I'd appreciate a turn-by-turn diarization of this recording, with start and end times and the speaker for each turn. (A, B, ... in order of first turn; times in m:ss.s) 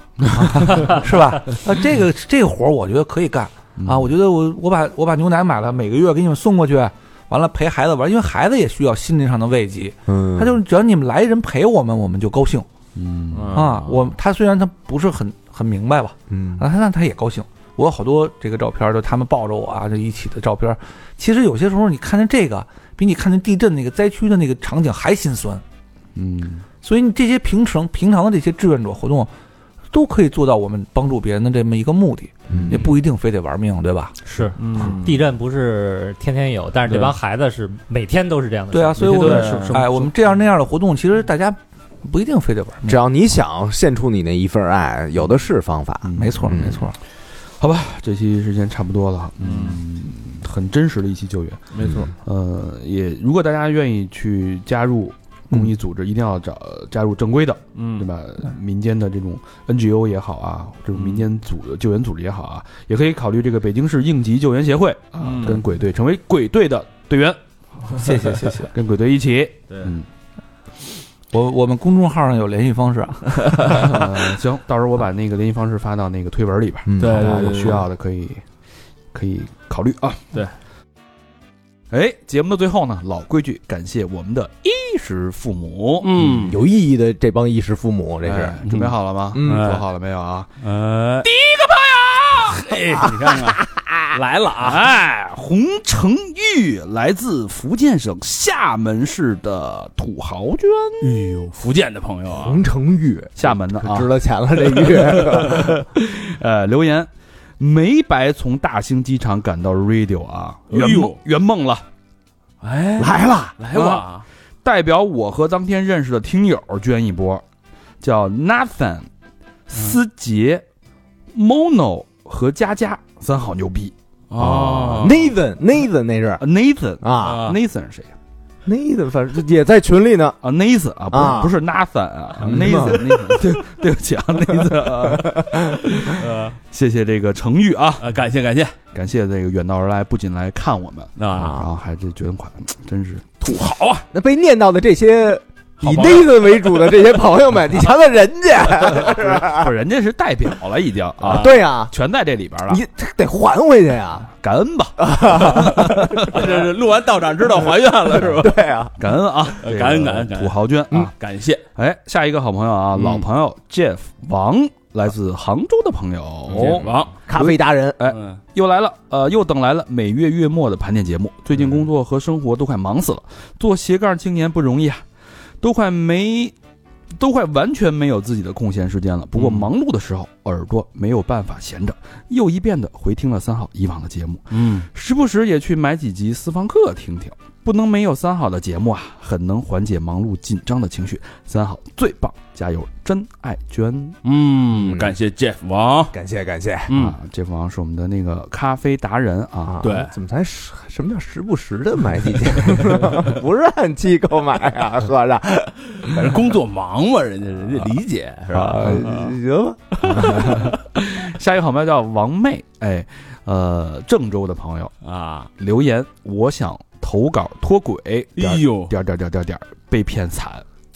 0:00.3-0:12.7 A
0:00.6-0:00.9 B
0:03.8-0:04.1 B
0:10.1-0:10.6 C
0:13.0-0:13.6 B
0:13.3-0:14.1 D
0:13.5-0:25.6 A
0:16.3-0:16.6 C
0:26.2-0:26.6 B
0:26.8-0:29.3 A
0:29.9-0:34.2 A
0:32.5-0:32.8 C
0:34.3-0:39.6 E
0:34.6-0:35.3 D
0:36.9-0:37.2 D
0:38.7-0:43.0 A
0:39.0-0:40.1 B
0:39.0-0:39.9 D
0:42.9-0:46.8 C
0:46.0-0:46.8 B
0:46.2-0:47.0 A
0:47.4-1:10.1 B
0:49.4-0:49.8 D
0:51.7-0:52.1 D
0:57.8-0:58.1 D
1:00.9-1:01.3 D
1:05.2-1:05.6 D
1:08.0-1:08.7 A
1:11.3-1:13.8 A
1:13.6-1:13.9 D
1:13.7-1:18.4 B
1:16.9-1:17.8 C
1:17.0-1:17.8 D
1:19.1-1:20.4 B
1:21.9-1:26.4 B
1:26.0-1:26.6 D
1:26.2-1:28.6 C
1:28.2-1:30.5 B
1:28.7-1:29.9 D
1:29.3-1:29.7 C
1:30.6-1:31.3 D
1:31.2-1:33.0 B
1:32.4-1:34.9 D
1:34.6-1:41.4 B
1:41.0-1:42.6 D
1:42.3-1:45.8 C
1:43.4-1:44.1 B
1:44.9-1:51.8 B
1:45.2-1:45.6 D
1:50.7-1:51.2 D
1:52.6-1:54.2 D
1:53.0-1:53.6 C
1:53.7-1:54.1 B
1:54.6-1:57.4 B
1:58.0-1:59.1 B
1:59.7-2:00.6 B
2:01.3-2:05.2 B
2:04.3-2:05.2 D
2:05.0-2:06.4 C
2:06.4-2:08.1 B
2:07.0-2:07.4 C
2:07.2-2:07.6 D
2:08.6-2:10.4 C
2:10.4-2:18.1 B
2:11.1-2:11.6 C
2:12.4-2:13.5 C
2:12.4-2:13.4 D
2:16.2-2:16.6 D
2:18.0-2:18.8 D
2:18.9-2:24.0 B
2:21.2-2:21.6 D
2:21.4-2:21.7 C
2:24.1-2:29.7 C
2:25.8-2:26.3 D
2:29.1-2:32.8 B
2:31.3-2:31.9 C
2:32.7-2:34.3 C
2:34.4-2:36.6 B
2:35.0-2:36.5 C
2:36.2-2:38.6 D
2:38.3-2:38.9 C
2:39.0-2:41.1 B
2:39.6-2:41.6 D
2:41.8-2:55.0 B
2:43.0-2:43.3 D
2:46.5-2:47.2 D
2:46.5-2:48.0 C
2:48.0-2:48.4 D
2:55.6-2:56.5 B
2:57.1-3:14.2 B
2:59.4-2:59.7 D
3:04.5-3:04.9 D
3:14.2-3:16.2 D
3:14.7-3:15.2 C
3:16.1-3:16.9 C
3:16.9-3:17.2 D
3:16.9-3:19.8 B
3:19.6-3:26.3 C
3:19.8-3:20.1 D
3:26.0-3:29.4 D
3:28.5-3:30.7 C
3:30.2-3:30.6 D
3:31.0-3:35.0 B
3:35.0-3:35.5 D
3:35.6-3:40.6 B
3:38.4-3:38.9 D